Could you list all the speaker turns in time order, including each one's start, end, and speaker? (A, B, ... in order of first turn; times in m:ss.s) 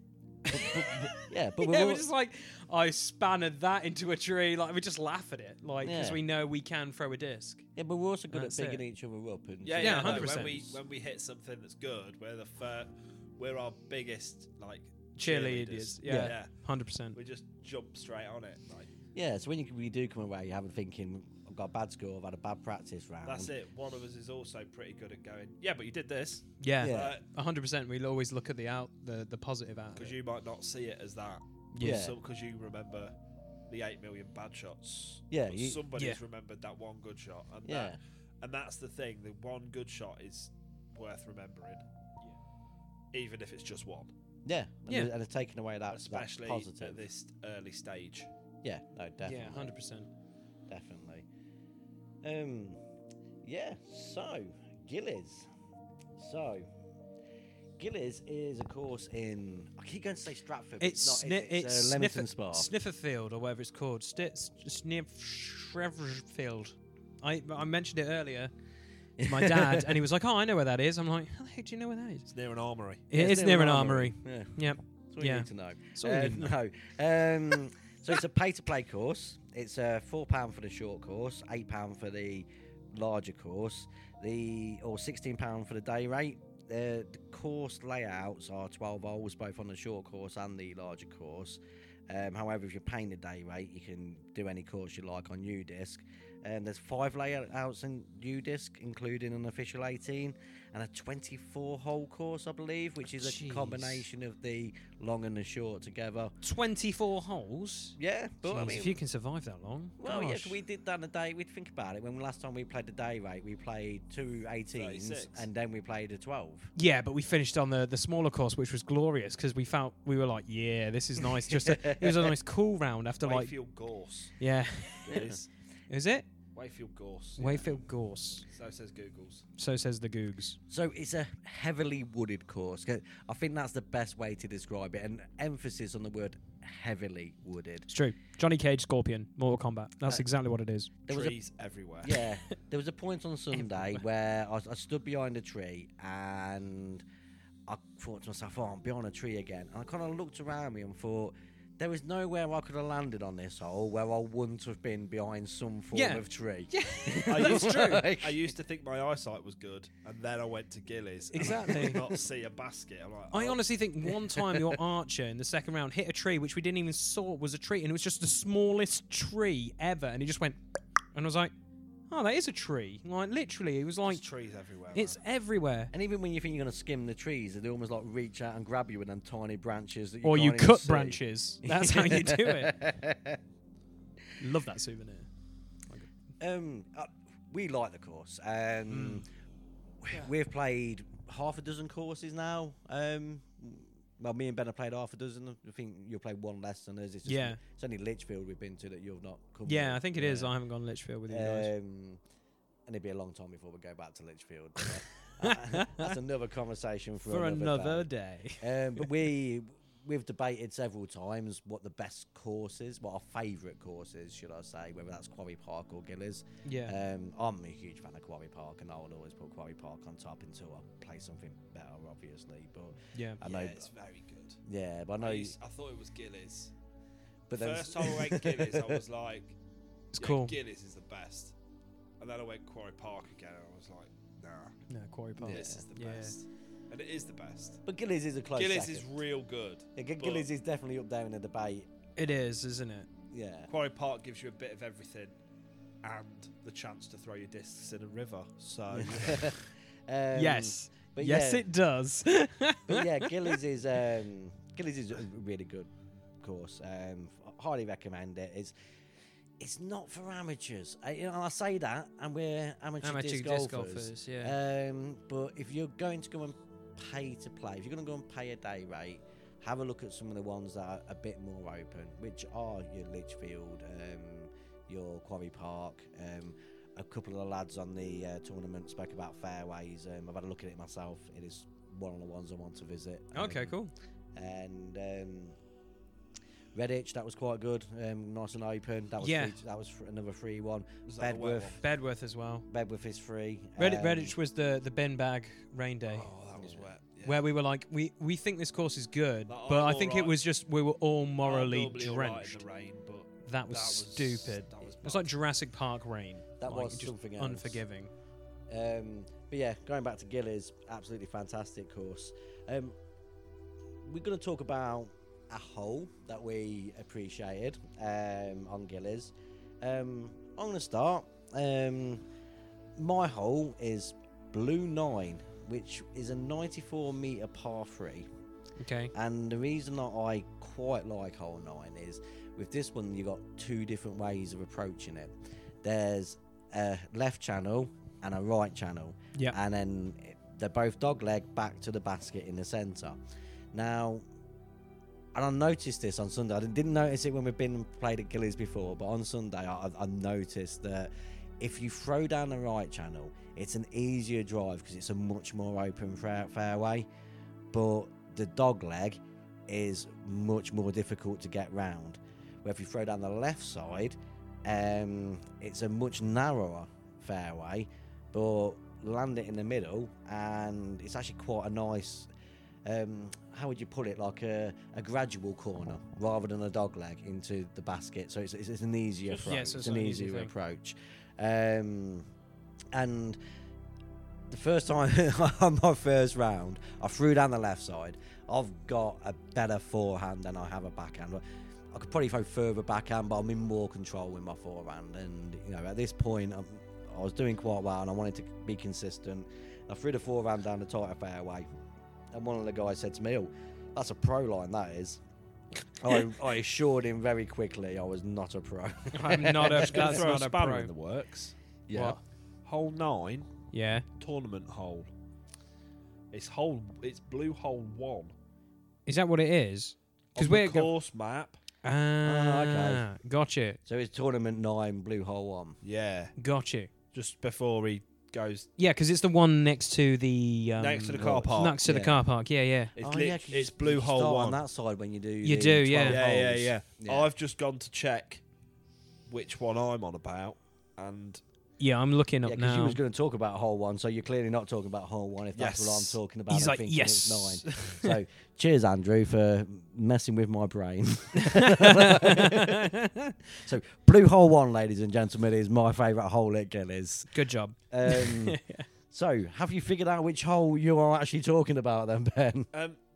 0:00.5-0:07.7 A
0:00.5-0:02.1 B
0:05.8-0:06.2 B
0:07.8-0:10.8 B
0:08.3-0:08.8 A
0:09.6-0:16.5 C
0:09.8-0:10.6 A
0:15.2-0:17.2 A
0:16.1-0:16.4 B
0:17.2-0:18.9 C
0:19.2-0:23.5 B
0:23.2-0:27.2 C
0:26.6-0:30.2 A
0:26.8-0:27.2 B
0:30.0-0:33.1 C
0:31.7-0:32.0 A
0:31.8-0:32.2 B
0:33.7-0:41.8 C
0:35.3-0:35.8 B
0:37.6-0:38.0 B
0:43.1-0:44.1 C
0:44.4-0:47.0 B
0:45.9-0:48.3 C
0:48.6-0:49.7 B
0:49.2-0:50.1 A
0:50.7-0:51.3 B
0:52.2-0:52.8 B
0:53.4-0:55.5 B
0:56.2-0:56.7 B
0:57.8-1:02.7 B
1:00.8-1:08.5 A
1:09.2-1:10.0 B
1:09.2-1:12.3 A
1:12.3-1:13.0 C
1:13.1-1:16.5 A
1:13.1-1:14.6 B
1:15.1-1:46.4 B
1:43.1-1:44.1 A
1:46.4-1:50.6 A
1:48.0-1:49.0 B
1:50.0-1:56.7 B
1:54.7-1:55.5 C
1:56.8-2:03.5 A
2:01.3-2:02.4 B
2:03.2-2:04.4 C
2:04.4-2:05.3 A
2:05.0-2:05.5 C
2:05.1-2:05.4 B
2:05.9-2:06.3 A
2:06.6-2:07.8 C
2:07.4-2:08.4 A
2:08.5-2:09.4 C
2:09.6-2:10.6 A
2:10.7-2:17.9 B
2:17.9-2:21.0 A
2:21.1-2:21.4 B
2:21.1-2:22.2 C
2:22.0-2:27.0 B
2:23.5-2:24.0 A
2:27.7-2:38.5 B
2:35.9-2:38.1 A
2:37.3-2:43.6 C
2:41.3-2:42.0 A
2:41.4-2:42.2 B
2:43.3-2:50.6 A
2:44.4-2:44.7 B
2:51.2-2:51.5 A
2:52.1-2:54.2 A
2:54.1-2:55.2 C
2:54.9-2:55.9 A
2:55.9-3:03.4 B
3:00.2-3:02.8 A
3:04.4-3:05.3 A
3:06.4-3:09.3 B
3:08.9-3:09.2 A
3:10.0-3:20.5 B
3:17.3-3:17.6 A
3:19.7-3:21.7 A
3:21.3-3:22.2 B
3:22.9-3:28.1 B
3:24.8-3:26.1 A
3:27.3-3:29.1 A
3:28.6-3:43.9 B
3:36.6-3:37.0 A
3:43.1-3:43.4 A
3:43.4-3:44.6 C
3:44.7-3:45.6 B
3:45.2-3:46.7 C
3:47.5-3:49.0 B
3:47.5-3:49.6 C
3:50.1-3:50.6 A
3:50.2-3:51.5 C
3:52.2-3:54.8 C
3:54.9-3:56.3 A
3:55.4-3:57.8 C
3:55.4-3:55.8 B
3:57.9-3:59.1 B
3:58.6-4:00.5 C
4:00.0-4:01.9 B
4:02.2-4:03.1 A
4:03.3-4:03.7 B
4:03.7-4:05.4 C
4:06.0-4:09.6 C
4:08.9-4:11.7 B
4:10.3-4:13.6 A
4:12.9-4:18.7 B
4:19.6-4:43.8 B
4:23.0-4:24.6 A
4:43.3-4:43.9 A
4:44.4-4:45.6 B
4:46.7-4:51.8 B
4:49.2-4:49.6 A
4:51.1-4:51.8 C
4:51.8-4:52.7 A
4:52.7-4:54.4 B
4:53.8-4:56.3 A
4:56.1-4:57.5 C
4:56.6-4:56.9 B
4:57.2-5:02.6 A
4:59.5-5:00.4 C
5:01.4-5:05.3 C
5:03.4-5:08.1 A
5:06.6-5:07.8 B
5:08.7-5:13.0 B
5:14.0-5:22.2 B
5:23.0-5:28.3 B
5:28.8-5:29.1 A
5:29.1-5:43.2 B
5:43.7-5:44.2 B
5:45.3-5:57.1 B
5:57.7-6:12.3 B
6:12.8-6:22.3 B
6:19.3-6:20.5 A
6:22.9-6:23.4 B
6:24.5-6:41.7 B
6:42.3-6:45.2 B
6:46.0-6:50.2 B
6:49.1-6:50.9 A
6:49.6-6:51.6 C
6:51.9-6:52.2 B
6:51.9-6:52.2 A
6:52.6-6:53.5 C
6:53.7-6:54.0 A
6:54.2-6:55.1 C
6:56.3-6:58.3 C
6:59.1-7:00.9 A
7:00.4-7:01.6 C
7:01.8-7:03.8 A
7:02.2-7:03.0 B
7:03.9-7:05.8 B
7:05.8-7:06.3 C
7:06.4-7:06.9 A
7:07.1-7:08.7 C
7:08.8-7:12.9 A
7:10.8-7:11.8 C
7:11.2-7:12.2 B
7:13.0-7:14.6 C
7:13.0-7:17.3 B
7:15.4-7:16.2 A
7:16.0-7:18.4 C
7:19.3-7:21.4 C
7:21.8-7:23.0 A
7:22.4-7:32.9 B
7:25.6-7:26.2 C
7:26.5-7:28.1 A
7:31.4-7:33.3 A
7:33.6-7:37.3 B
7:37.3-7:38.9 A
7:37.9-7:38.6 B
7:39.1-7:42.7 B
7:42.7-7:43.0 C